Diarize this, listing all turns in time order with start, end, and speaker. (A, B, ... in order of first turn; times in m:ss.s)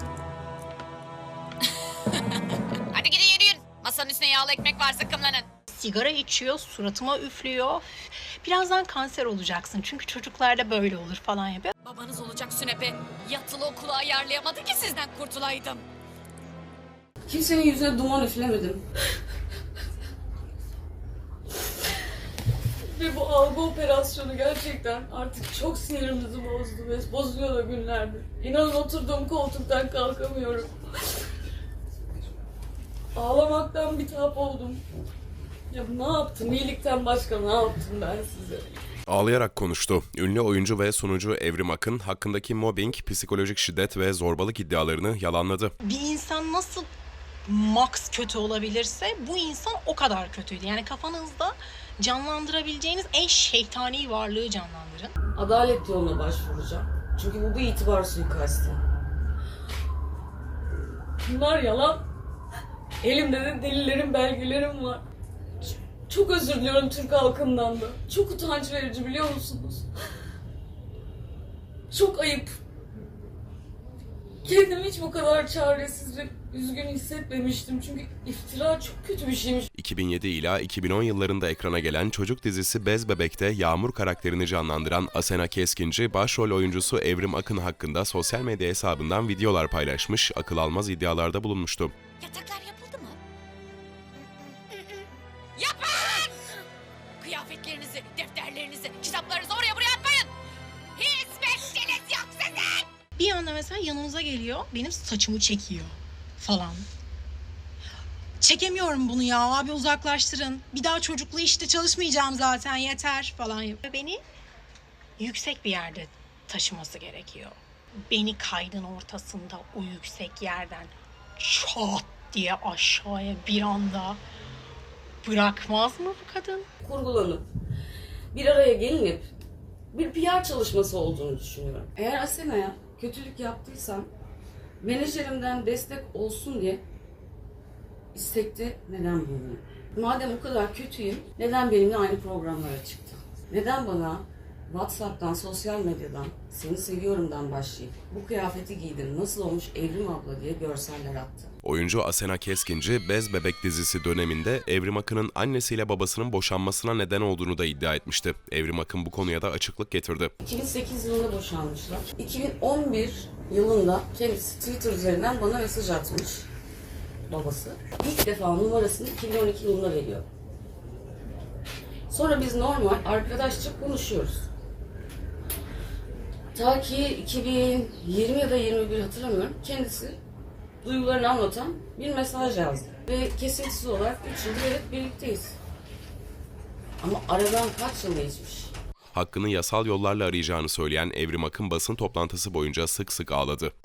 0:02.9-0:05.5 A
0:05.7-0:07.9 B
0:08.4-0:11.7 B
0:11.8-0:15.8 A
0:17.3-0:18.8 C
0:23.8-0:25.2 C
0:26.4-0:26.8 C
0:27.3-0:30.6 C
0:33.2-0:34.8 C
0:35.7-0:38.7 C
0:39.1-0:45.7 D
0:45.8-0:46.9 B
0:47.4-0:55.1 B
0:55.4-0:58.8 C
1:01.3-1:01.9 C
1:03.1-1:04.8 C
1:06.1-1:06.5 C
1:07.2-1:09.8 C
1:11.9-1:12.5 C
1:14.5-1:19.6 C
1:19.7-1:32.0 D
1:32.2-1:33.2 A
1:35.6-1:36.3 A
1:37.2-1:40.3 A
1:41.0-1:42.8 A
1:43.2-1:46.9 B
1:48.4-1:54.2 B
1:55.2-1:57.6 B
1:58.1-2:04.2 B
2:05.2-2:06.6 B
2:06.8-2:07.5 C
2:08.3-2:09.3 C
2:09.9-2:14.1 C
2:14.8-2:16.8 C
2:18.1-2:31.5 C
2:31.6-2:40.3 D
2:40.4-2:46.5 C
2:47.3-2:50.2 C
2:52.1-2:54.5 C
2:56.5-3:00.2 C
3:00.8-3:05.6 C
3:07.0-3:08.7 C
3:09.1-3:13.7 D